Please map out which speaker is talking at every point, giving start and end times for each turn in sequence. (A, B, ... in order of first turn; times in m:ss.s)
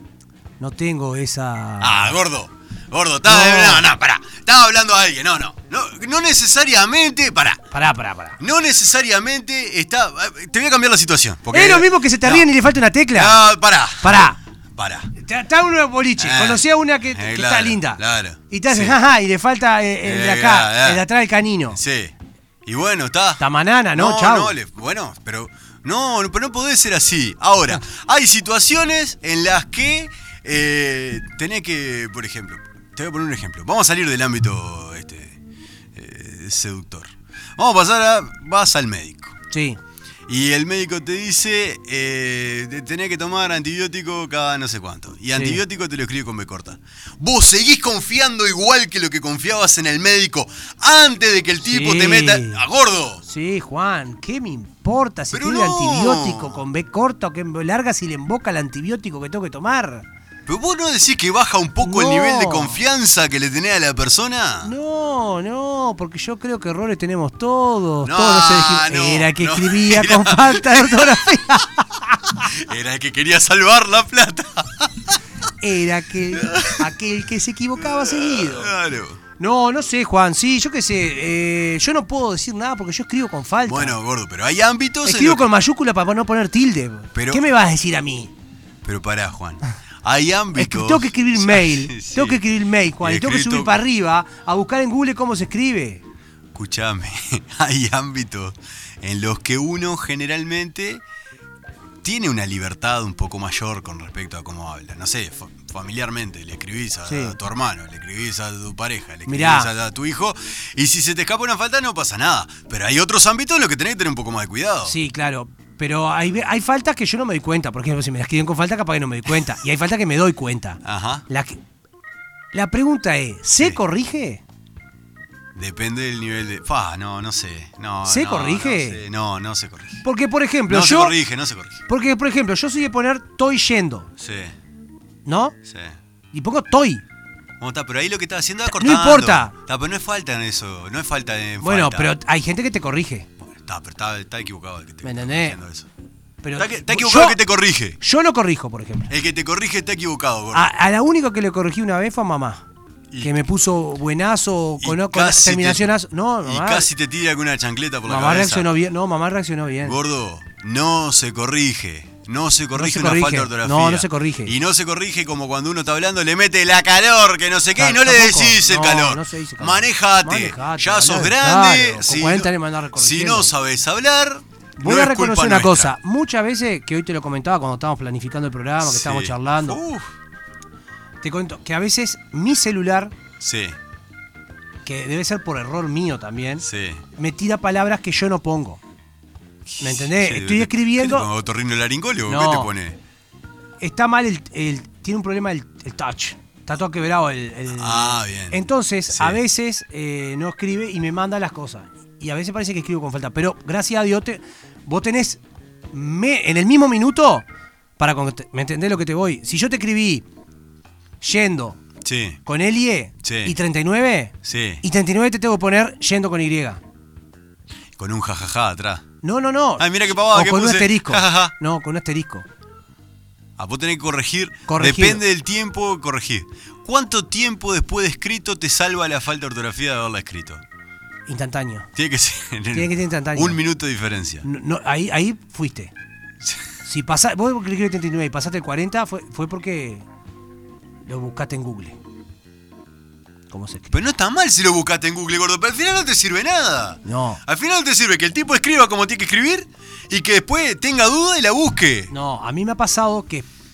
0:00.6-0:02.2 A
0:01.8-0:07.6 B
0:03.2-0:03.9 A
0:07.7-0:08.4 A
0:08.4-0:12.5 B
0:11.5-0:13.4 A
0:13.1-0:15.1 B
0:14.0-0:14.4 A
0:15.2-0:21.8 A
0:16.2-0:19.0 B
0:20.0-0:21.0 B
0:21.7-0:22.1 B
0:22.6-0:23.4 B
0:23.4-0:24.5 A
0:23.9-0:35.4 B
0:35.9-0:39.4 B
0:39.5-0:39.8 A
0:40.3-0:53.2 B
0:45.3-0:45.6 A
0:51.6-0:52.6 A
0:53.2-1:00.0 A
0:55.3-0:56.6 B
1:00.5-1:04.7 B
1:01.8-1:02.8 A
1:04.6-1:12.2 A
1:08.0-1:11.4 B
1:12.4-1:15.2 B
1:15.6-1:18.7 A
1:16.3-1:16.8 B
1:17.8-1:19.2 B
1:19.4-1:24.0 A
1:23.6-1:25.4 B
1:25.0-1:28.3 A
1:27.1-1:27.4 B
1:28.8-1:32.4 B
1:30.5-1:36.0 A
1:33.0-1:33.8 B
1:36.5-1:41.0 B
1:42.0-1:55.0 B
1:47.1-1:47.4 A
1:49.3-1:49.7 A
1:54.8-2:01.6 A
2:00.8-2:01.2 B
2:02.5-2:04.4 A
2:05.5-2:10.0 B
2:08.0-2:09.0 A
2:10.0-2:11.1 A
2:10.7-2:11.8 B
2:11.9-2:14.1 A
2:14.2-2:14.5 B
2:15.2-2:15.6 A
2:15.6-2:16.0 B
2:16.3-2:17.0 A
2:17.6-2:22.2 B
2:18.7-2:19.5 A
2:21.6-2:23.3 A
2:23.4-2:25.9 B
2:25.0-2:25.6 A
2:26.4-2:27.4 A
2:26.6-2:28.0 B
2:28.0-2:29.1 A
2:29.1-2:30.7 B
2:30.5-2:32.6 A
2:33.1-2:33.4 B
2:33.2-2:36.9 A
2:34.8-2:35.9 B
2:36.4-2:38.7 B
2:38.1-2:40.0 A
2:39.8-2:55.9 B
2:42.7-2:44.6 A
2:47.8-2:53.5 A
2:54.8-2:59.8 A
2:58.8-3:00.1 B
3:01.2-3:03.1 A
3:03.4-3:03.8 B
3:04.8-3:06.6 A
3:06.6-3:07.0 B
3:07.2-3:08.8 A
3:09.6-3:13.0 B
3:09.8-3:11.3 A
3:12.3-3:12.7 A
3:13.8-3:25.4 A
3:17.7-3:19.4 B
3:25.9-3:27.4 A
3:28.0-3:30.2 A
3:31.2-3:31.8 A
3:32.0-3:32.4 B
3:32.4-3:36.8 A
3:33.2-3:33.5 B
3:34.4-3:34.8 B
3:38.0-3:39.0 B
3:39.2-3:42.5 A
3:39.8-3:41.5 B
3:43.6-3:50.6 B
3:44.7-3:45.2 A
3:51.3-3:51.9 A
3:52.0-3:54.4 B
3:52.7-3:53.6 A
3:54.4-3:55.9 A
3:56.8-4:00.0 A
4:01.0-4:02.0 A
4:03.5-4:03.9 A
4:03.9-4:12.1 B
4:07.0-4:07.4 A
4:12.1-4:13.5 A